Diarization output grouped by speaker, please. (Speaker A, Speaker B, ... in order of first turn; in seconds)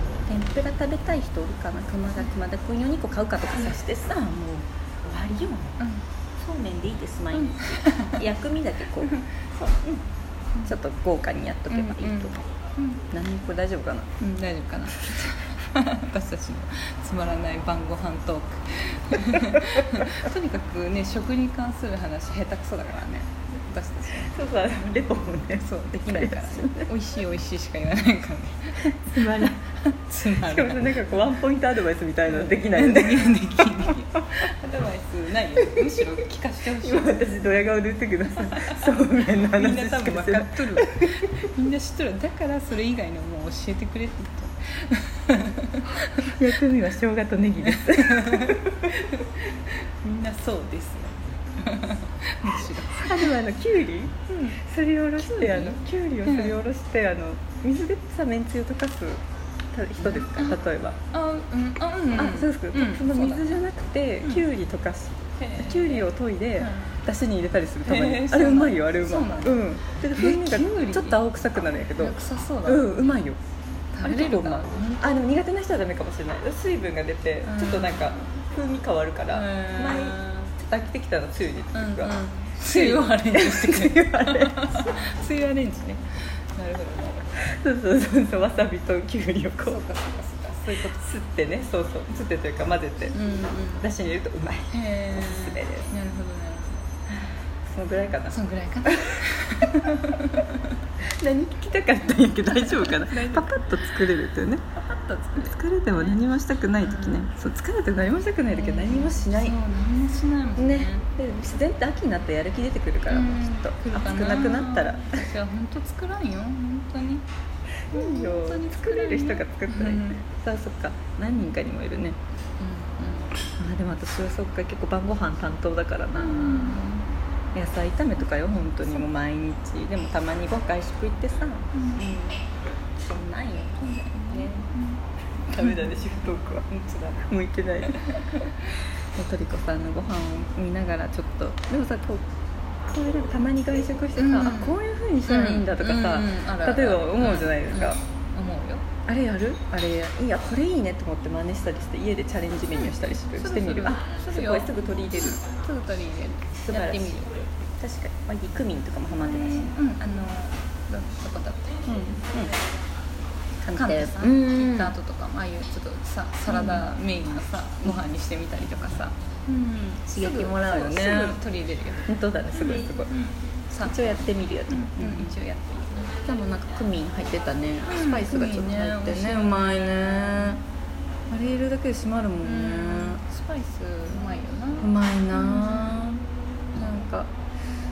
Speaker A: 0.2-5.8, 6.4-10.0, 10.6-12.4, 13.1-14.1, 19.4-19.7, 24.3-26.9, 28.8-34.4, 35.7-36.1, 36.8-41.5, 46.2-49.0, 52.7-59.2, 59.7-61.0, 62.1-73.4, 74.0-85.0, 87.3-89.8, 90.7-93.2, 93.8-95.9, 97.7-100.0, 101.0-104.7, 105.3-109.6, 110.6-115.3, 117.9-122.2, 123.6-126.9, 127.5-134.7, 135.5-142.2, 142.9-148.0, 149.1-155.4, 156.6-159.7, 161.8-162.5, 163.6-164.9, 166.5-166.9, 170.1-171.4, 172.1-173.1, 173.8-175.3, 176.2-180.6, 181.3-183.2, 184.8-186.2, 186.7-187.3
Speaker B: 7.3-8.2, 11.7-13.0, 14.2-24.3, 25.5-31.3, 32.2-37.4, 38.3-46.4, 47.6-53.3, 54.3-54.6, 55.2-56.6, 60.0-60.6, 61.1-63.6, 65.4-66.9, 67.8-71.2, 72.0-72.9, 73.9-75.3, 77.4-78.1, 79.3-80.5, 81.7-87.3, 89.6-91.0, 93.1-93.8, 94.7-96.9, 98.3-100.8, 102.5-103.8, 104.8-106.2, 106.8-107.3, 108.5-111.0, 113.1-117.2, 117.9-120.2, 122.6-123.3, 126.2-127.0, 131.7-132.0, 133.8-135.0, 144.2-148.8, 153.3-157.5, 159.2-161.8, 163.7-176.1, 177.8-180.6, 182.4-186.0